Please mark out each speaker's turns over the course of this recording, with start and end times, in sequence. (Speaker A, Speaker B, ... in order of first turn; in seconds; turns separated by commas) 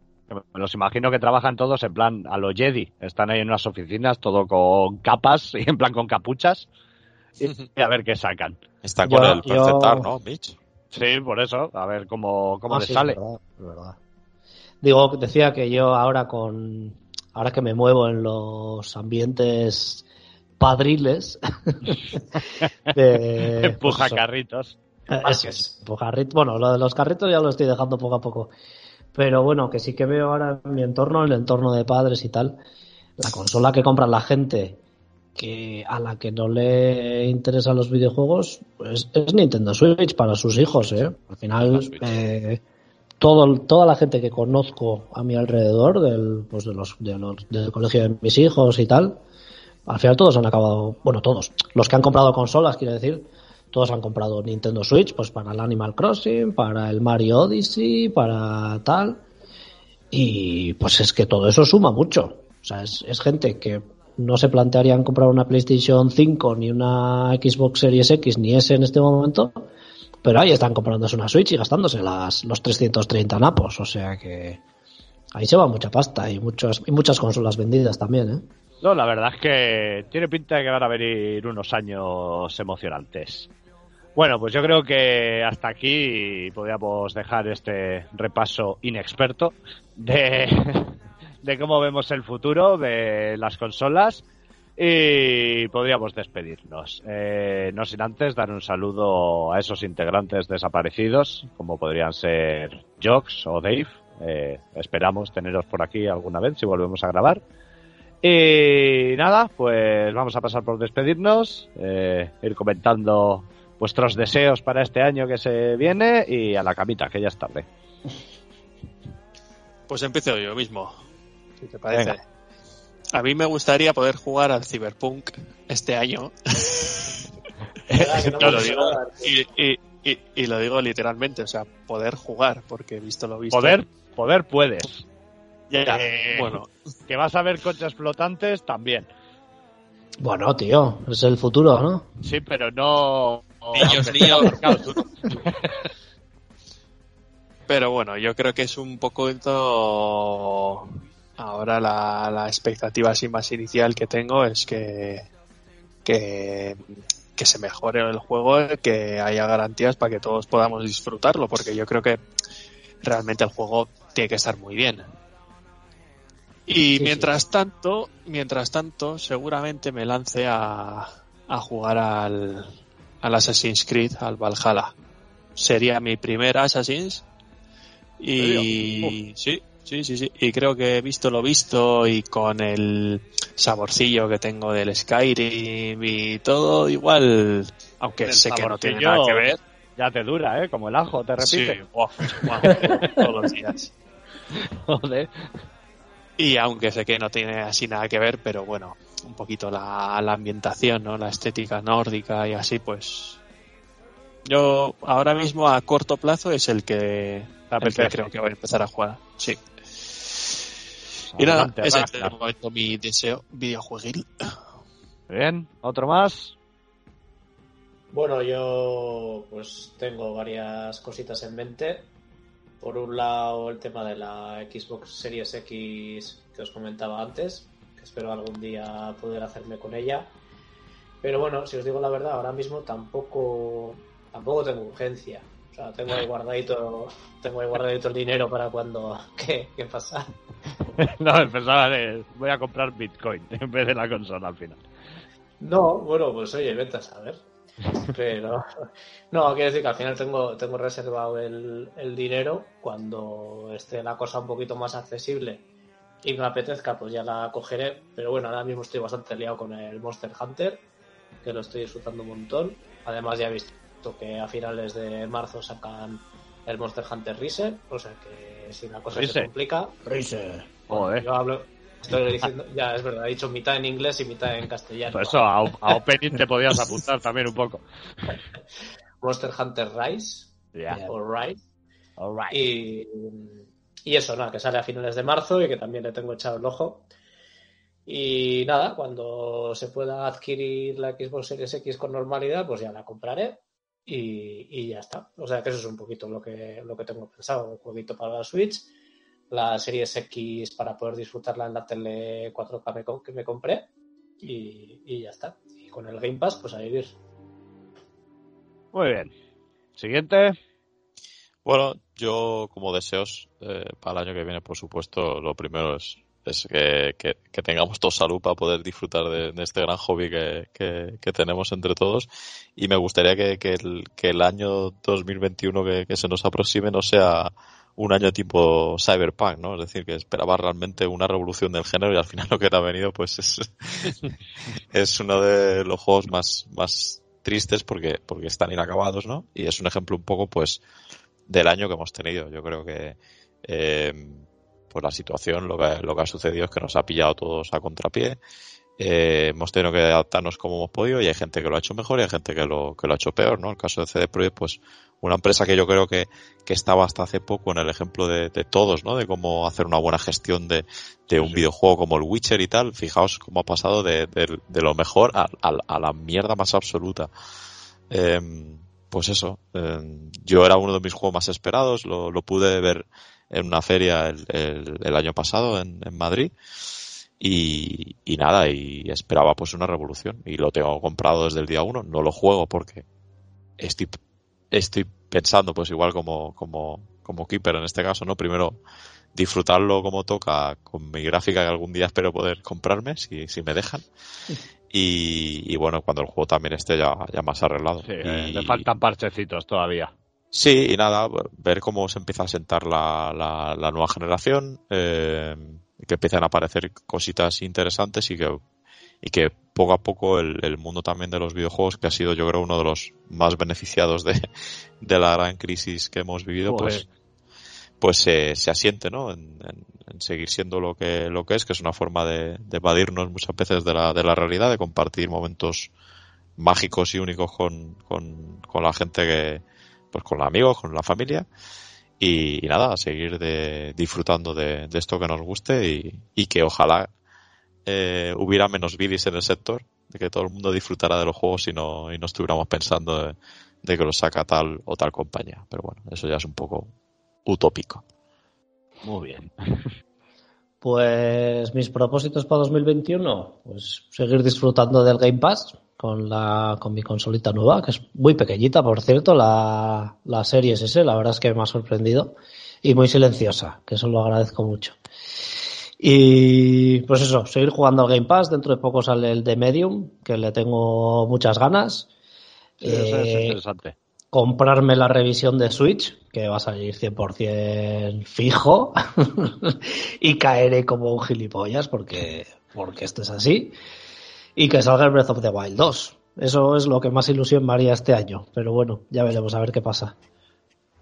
Speaker A: 0.3-6.7, Speaker A: 7.4-8.6, Speaker B: 8.8-10.6, Speaker C: 9.0-10.1, Speaker A: 10.9-13.2, Speaker C: 12.7-14.0, Speaker C: 14.8-20.1, Speaker C: 20.6-24.2, Speaker A: 22.4-22.7, Speaker A: 23.5-24.8, Speaker C: 25.1-28.5, Speaker D: 25.2-25.7, Speaker C: 29.1-32.6, Speaker C: 33.2-34.8, Speaker C: 35.4-42.6, Speaker B: 41.7-42.0, Speaker C: 43.2-49.2, Speaker C: 49.9-59.2, Speaker C: 60.1-69.7, Speaker C: 70.2-74.6, Speaker C: 75.3-78.5, Speaker A: 78.8-83.5, Speaker A: 84.2-94.2, Speaker A: 94.8-107.4, Speaker A: 108.2-117.7, Speaker E: 119.9-120.9, Speaker E: 121.6-122.2, Speaker E: 123.1-127.2, Speaker A: 127.9-128.9, Speaker D: 127.9-129.3, Speaker E: 128.3-133.8, Speaker A: 133.5-135.0, Speaker E: 135.7-136.7, Speaker A: 135.7-139.1, Speaker C: 140.2-142.1, Speaker A: 142.2-145.9, Speaker E: 143.7-144.6, Speaker E: 147.7-155.3, Speaker E: 156.0-156.8, Speaker E: 157.3-162.2, Speaker E: 163.0-165.1, Speaker E: 166.7-172.7, Speaker C: 167.0-167.3, Speaker E: 173.2-174.9, Speaker E: 175.6-177.3, Speaker E: 178.2-189.6, Speaker A: 178.4-179.2, Speaker A: 188.2-193.2, Speaker E: 191.4-193.9, Speaker A: 194.5-195.4, Speaker E: 196.4-203.4, Speaker E: 204.4-209.6, Speaker A: 207.7-208.3, Speaker A: 211.3-212.3, Speaker E: 211.3-214.5, Speaker A: 215.3-216.5, Speaker D: 218.1-222.1, Speaker D: 222.8-230.3, Speaker D: 231.2-240.3, Speaker A: 240.9-244.8, Speaker D: 245.6-247.4, Speaker D: 248.1-255.6, Speaker D: 256.2-260.8, Speaker D: 261.4-269.9, Speaker A: 269.1-269.5, Speaker C: 270.0-270.7, Speaker A: 270.9-271.3, Speaker D: 270.9-275.5, Speaker A: 275.1-277.8, Speaker D: 279.2-281.6, Speaker A: 280.7-281.1, Speaker A: 282.2-282.6, Speaker D: 282.5-287.1, Speaker D: 288.1-298.9, Speaker D: 299.5-303.9, Speaker D: 304.4-307.2, Speaker A: 308.9-309.3, Speaker A: 310.0-310.6, Speaker B: 311.6-334.3, Speaker B: 334.9-340.8, Speaker B: 341.5-348.4, Speaker B: 349.0-367.3, Speaker B: 368.1-376.5, Speaker B: 377.4-383.0, Speaker B: 383.8-384.2, Speaker B: 384.7-388.8, Speaker B: 389.3-394.0, Speaker B: 394.9-398.9, Speaker A: 398.0-400.1, Speaker B: 400.5-408.6, Speaker B: 409.2-414.4, Speaker B: 415.0-417.1, Speaker A: 416.6-417.1, Speaker B: 418.0-425.9, Speaker B: 426.6-431.4, Speaker B: 432.2-437.1, Speaker B: 437.9-446.9, Speaker B: 447.4-448.0, Speaker A: 449.0-449.9, Speaker C: 450.8-465.0, Speaker C: 466.0-472.1, Speaker C: 472.8-473.6, Speaker A: 472.8-473.9, Speaker C: 474.3-483.7, Speaker C: 484.6-490.1